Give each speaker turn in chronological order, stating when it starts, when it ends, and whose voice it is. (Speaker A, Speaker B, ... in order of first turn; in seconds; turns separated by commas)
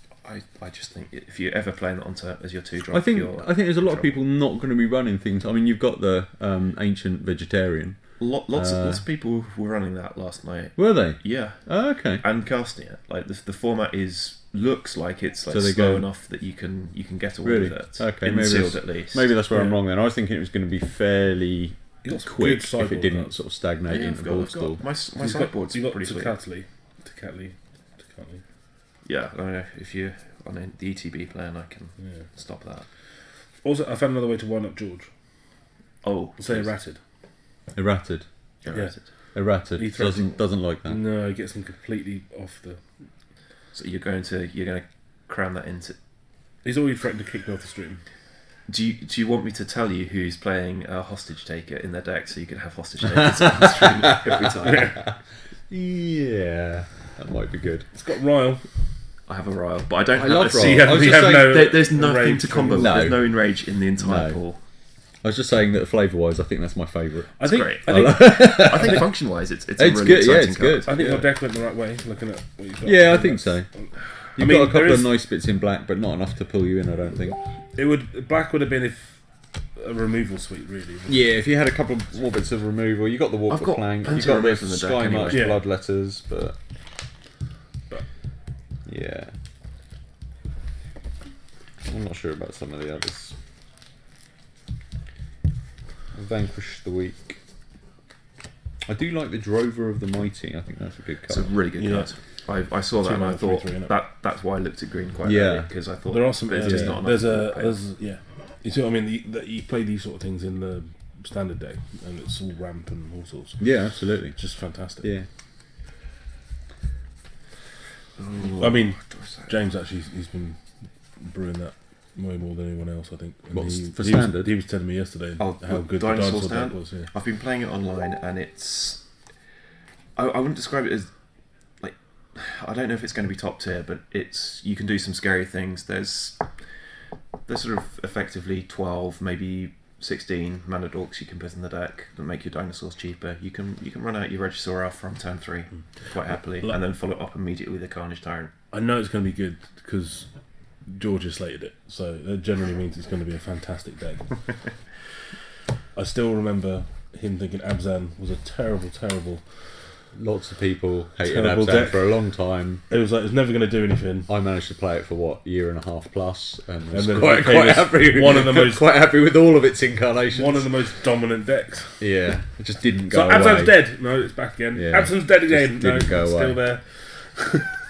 Speaker A: 0.2-4.2, Speaker B: 2.9-9.0, Speaker A: 8.2-19.4, Speaker B: 10.8-12.2, Speaker B: 15.5-16.1, Speaker B: 17.4-24.8, Speaker C: 19.5-19.8, Speaker C: 22.0-23.3, Speaker A: 23.9-26.3, Speaker C: 25.1-28.4, Speaker A: 29.0-32.9, Speaker C: 32.0-32.3, Speaker C: 33.6-35.1, Speaker A: 36.0-36.7, Speaker C: 36.4-37.0, Speaker B: 37.7-38.2, Speaker A: 38.6-39.3, Speaker C: 38.7-42.8, Speaker B: 39.3-41.0, Speaker A: 43.7-46.0, Speaker C: 46.6-48.0, Speaker A: 48.7-55.1, Speaker B: 53.2-54.8, Speaker C: 53.6-55.0, Speaker B: 55.7-57.9, Speaker C: 57.9-58.6, Speaker A: 59.3-64.6, Speaker B: 60.1-61.7, Speaker C: 60.3-63.2, Speaker B: 62.8-64.4, Speaker B: 65.2-69.1, Speaker C: 67.4-69.0, Speaker A: 67.4-70.9, Speaker B: 69.8-71.3, Speaker C: 70.9-75.1, Speaker B: 72.8-73.7, Speaker B: 74.3-77.4, Speaker C: 77.7-79.2, Speaker C: 79.8-81.3, Speaker B: 81.1-86.6, Speaker A: 83.5-85.5, Speaker C: 85.3-85.6, Speaker B: 88.8-89.3, Speaker B: 91.8-93.4, Speaker B: 96.1-97.4, Speaker B: 98.8-101.6, Speaker A: 101.3-107.8, Speaker C: 101.8-102.2, Speaker C: 103.0-103.9, Speaker B: 105.2-105.7, Speaker C: 106.1-115.1, Speaker B: 106.6-107.0, Speaker B: 113.6-114.4, Speaker B: 115.0-115.3, Speaker A: 118.2-119.5, Speaker C: 118.6-120.6, Speaker C: 121.2-127.1, Speaker B: 123.5-124.5, Speaker A: 125.4-129.1, Speaker A: 130.2-136.9, Speaker A: 137.4-148.5, Speaker C: 145.7-146.1, Speaker C: 148.7-150.3, Speaker C: 150.8-154.5, Speaker C: 155.9-159.7, Speaker B: 160.1-162.8, Speaker C: 161.2-162.3, Speaker C: 162.9-164.3, Speaker B: 164.3-170.7, Speaker C: 166.9-168.9, Speaker C: 170.3-172.1, Speaker B: 172.0-173.8, Speaker C: 173.1-177.7, Speaker B: 174.7-176.6